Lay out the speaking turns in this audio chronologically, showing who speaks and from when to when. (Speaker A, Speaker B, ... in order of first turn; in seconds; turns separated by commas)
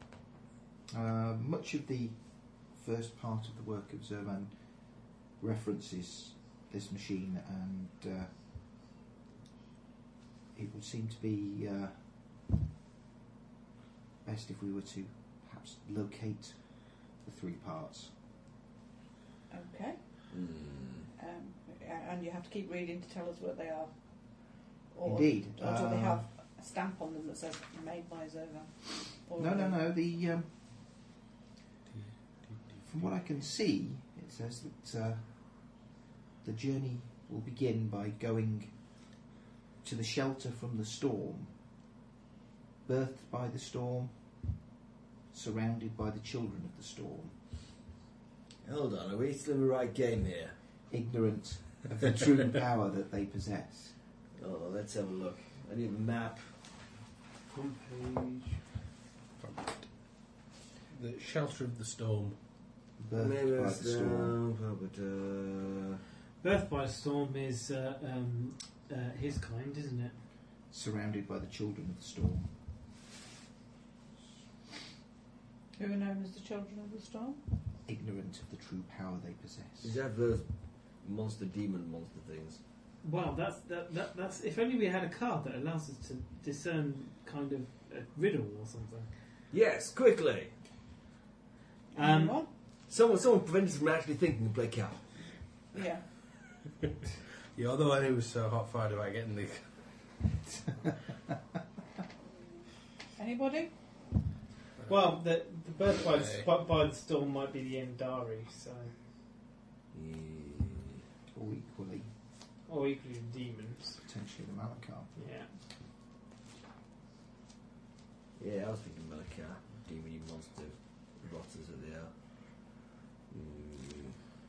Speaker A: 0.9-8.4, Speaker A: 10.5-12.1, Speaker A: 14.2-18.1, Speaker B: 19.5-20.3, Speaker C: 20.3-21.1, Speaker B: 21.1-29.8, Speaker A: 25.0-26.2, Speaker A: 29.4-30.5, Speaker D: 32.4-32.8, Speaker A: 32.8-35.8, Speaker A: 36.4-39.0, Speaker A: 39.8-41.6, Speaker A: 42.8-44.5, Speaker A: 45.3-47.4, Speaker C: 48.6-50.5, Speaker A: 50.9-54.0, Speaker C: 54.4-56.6, Speaker E: 57.5-58.6, Speaker D: 59.4-60.1, Speaker D: 60.9-62.4, Speaker A: 63.0-64.4, Speaker C: 63.2-66.0, Speaker E: 66.4-70.2, Speaker A: 70.7-72.5, Speaker B: 75.8-77.4, Speaker A: 77.8-80.0, Speaker C: 79.8-82.6, Speaker E: 83.0-89.1, Speaker C: 89.5-90.5, Speaker B: 91.9-92.5, Speaker E: 91.9-92.4, Speaker C: 92.7-95.2, Speaker B: 95.7-96.1, Speaker D: 97.5-100.2, Speaker B: 103.2-103.7, Speaker D: 104.8-105.1, Speaker E: 104.9-108.9, Speaker D: 106.1-106.5, Speaker C: 109.9-111.0, Speaker A: 111.3-112.1, Speaker E: 112.7-114.0, Speaker A: 114.0-115.1, Speaker E: 115.1-115.5, Speaker C: 118.4-124.2